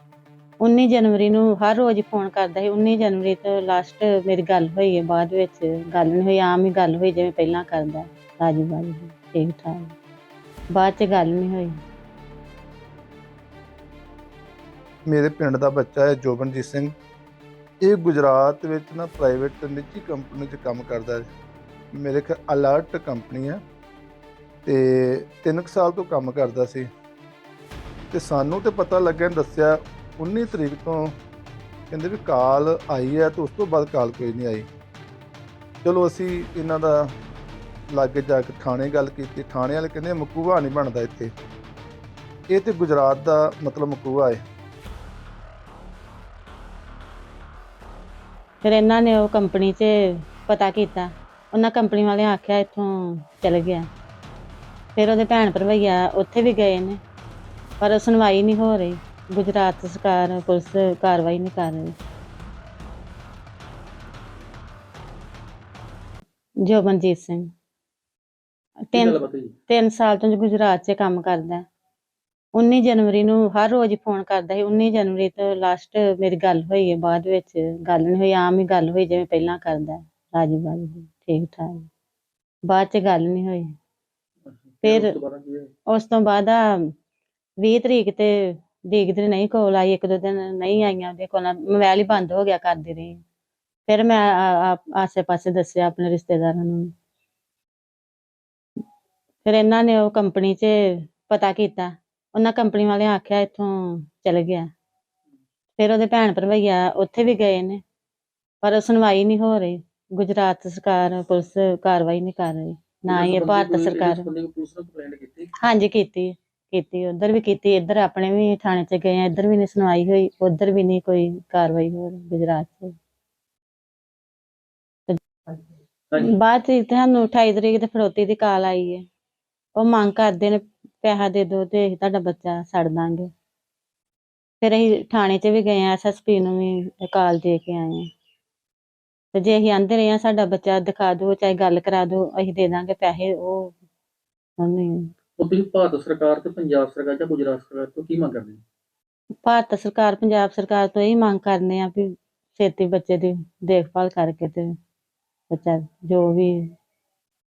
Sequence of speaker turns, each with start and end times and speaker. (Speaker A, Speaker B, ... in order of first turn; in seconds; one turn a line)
Speaker A: 0.6-9.9
Speaker A: 10.7-11.8
Speaker B: 15.1-16.9
Speaker B: 17.8-21.3
Speaker B: 21.9-23.6
Speaker B: 24.7-26.9
Speaker B: 28.1-31.2
Speaker B: 31.9-34.7
Speaker B: 35.8-37.1
Speaker B: 37.9-41.3
Speaker B: 42.5-44.4
Speaker A: 48.6-53.9
Speaker A: 55.0-57.0
Speaker A: 57.8-62.0
Speaker A: 66.6-67.5
Speaker A: 68.9-69.2
Speaker C: 68.9-69.6
Speaker A: 69.7-71.7
Speaker A: 72.5-81.9
Speaker A: 82.7-83.7
Speaker C: 84.5-85.7
Speaker A: 84.8-85.1
Speaker A: 85.9-86.9
Speaker A: 87.6-93.2
Speaker A: 93.9-96.9
Speaker A: 99.5-104.7
Speaker A: 105.8-107.8
Speaker A: 108.6-114.2
Speaker C: 113.1-115.5
Speaker A: 115.6-123.0
Speaker A: 125.1-125.6
Speaker A: 126.2-129.0
Speaker A: 129.8-133.3
Speaker A: 134.6-138.1
Speaker A: 139.3-143.8
Speaker A: 144.6-145.1
Speaker C: 145.4-148.6
Speaker A: 149.4-154.8
Speaker A: 155.5-156.7